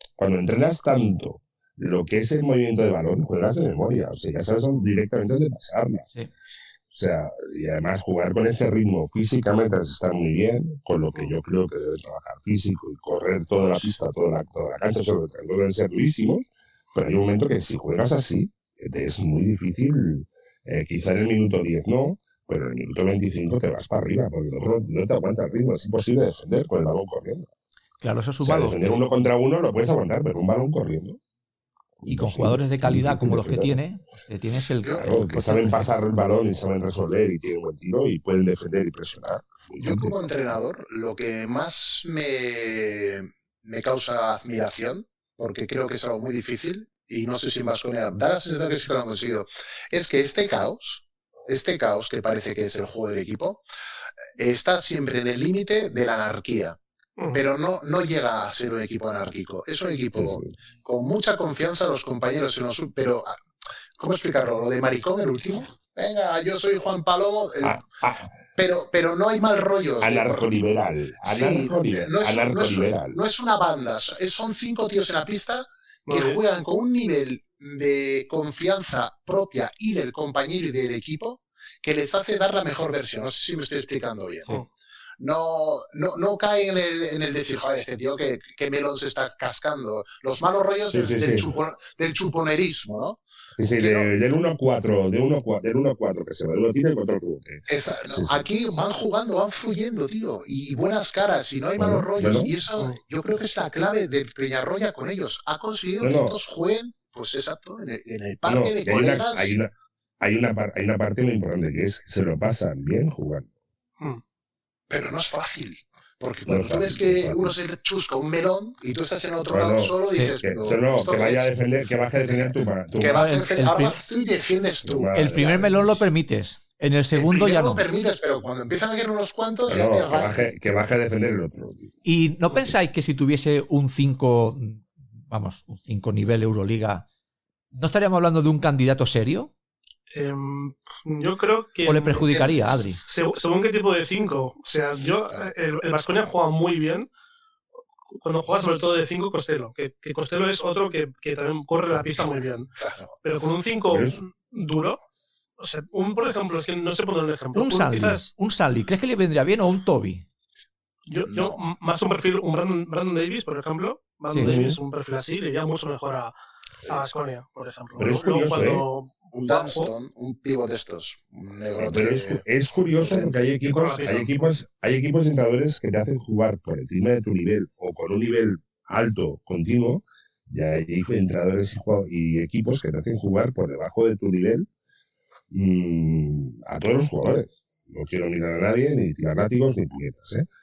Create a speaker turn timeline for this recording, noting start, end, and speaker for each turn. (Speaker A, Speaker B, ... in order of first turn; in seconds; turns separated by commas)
Speaker A: 0.2-6.0, Speaker A: 6.9-27.5, Speaker B: 28.0-28.9, Speaker A: 28.4-31.2, Speaker A: 32.0-33.8, Speaker B: 32.0-35.9, Speaker A: 35.0-40.1, Speaker C: 39.8-53.6, Speaker C: 54.4-56.8, Speaker D: 57.2-57.4, Speaker C: 57.3-63.4, Speaker A: 60.1-60.5, Speaker C: 64.0-67.8, Speaker A: 67.6-68.3, Speaker C: 68.5-70.5, Speaker A: 70.0-73.2, Speaker C: 71.2-84.5, Speaker D: 76.0-76.4, Speaker C: 85.2-93.2, Speaker A: 90.9-91.5, Speaker A: 93.6-98.4, Speaker C: 93.8-94.1, Speaker C: 97.7-109.5, Speaker A: 101.8-102.5, Speaker A: 106.0-106.4, Speaker A: 108.4-113.5, Speaker C: 114.9-121.5, Speaker A: 116.5-117.5, Speaker A: 119.5-123.3, Speaker B: 120.1-120.4, Speaker C: 123.0-126.0, Speaker B: 123.1-124.0, Speaker A: 124.8-125.5, Speaker B: 125.1-127.8, Speaker C: 127.1-130.5, Speaker A: 129.7-131.9, Speaker B: 132.0-137.1, Speaker B: 137.7-139.5, Speaker D: 140.1-147.1, Speaker B: 141.8-143.0, Speaker D: 148.1-152.7, Speaker C: 152.8-153.1, Speaker D: 153.2-155.0, Speaker A: 153.9-154.2, Speaker D: 155.6-158.3, Speaker B: 157.5-160.2, Speaker D: 161.1-166.3, Speaker C: 161.3-161.6, Speaker A: 164.4-164.8, Speaker D: 166.8-169.9, Speaker A: 168.0-168.8, Speaker C: 169.3-172.4, Speaker A: 171.8-184.7, Speaker C: 173.0-173.3, Speaker D: 173.6-174.3, Speaker A: 185.5-190.4